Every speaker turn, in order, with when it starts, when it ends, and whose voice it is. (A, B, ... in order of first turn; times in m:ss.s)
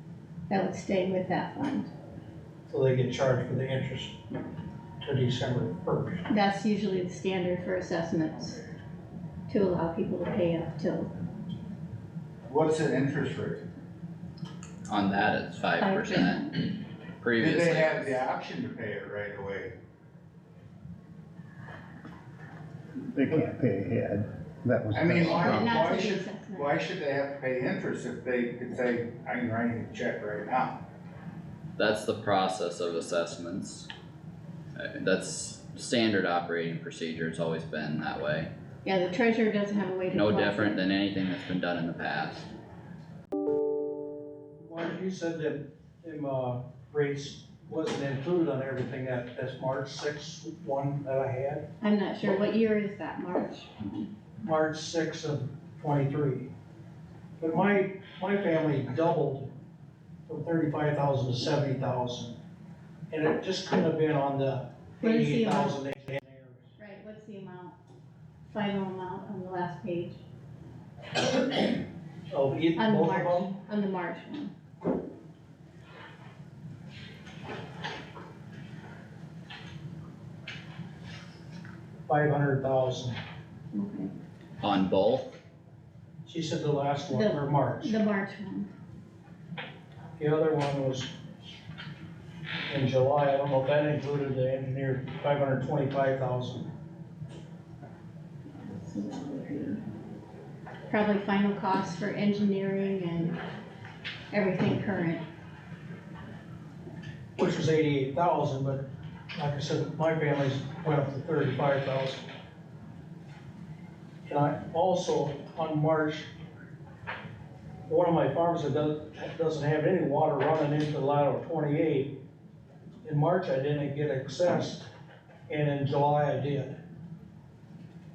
0:00.5-0:01.9 A
0:02.7-0:04.2 B
0:05.0-0:06.2 B
0:06.3-0:08.6 A
0:09.5-0:11.1 A
0:12.5-0:13.6 C
0:14.9-0:18.2 D
0:15.8-0:16.4 A
0:17.4-0:19.7 C
0:23.1-0:26.0 E
0:24.9-0:30.8 C
0:25.4-0:26.8 A
0:31.8-0:33.9 D
0:34.8-0:38.5 D
0:38.8-0:40.8 A
0:40.1-0:42.5 D
0:44.6-0:51.6 B
0:51.8-0:54.1 A
0:52.2-0:52.5 B
0:54.4-0:56.5 B
0:57.4-0:59.5 B
1:00.3-1:02.4 B
1:03.1-1:06.7 B
1:05.0-1:05.8 A
1:06.8-1:07.8 A
1:08.5-1:10.2 A
1:12.3-1:13.5 B
1:12.7-1:14.5 A
1:22.1-1:23.2 B
1:23.7-1:24.1 A
1:24.6-1:25.3 D
1:26.2-1:28.0 B
1:27.1-1:28.7 A
1:30.2-1:31.1 B
1:32.7-1:36.7 B
1:38.6-1:39.8 A
1:40.9-1:43.4 A
1:44.3-1:45.2 A
1:47.4-1:48.8 B
1:49.4-1:52.3 B
1:54.2-1:56.3 B
1:57.9-2:02.1 B
2:03.0-2:04.9 B
2:05.5-2:06.8 B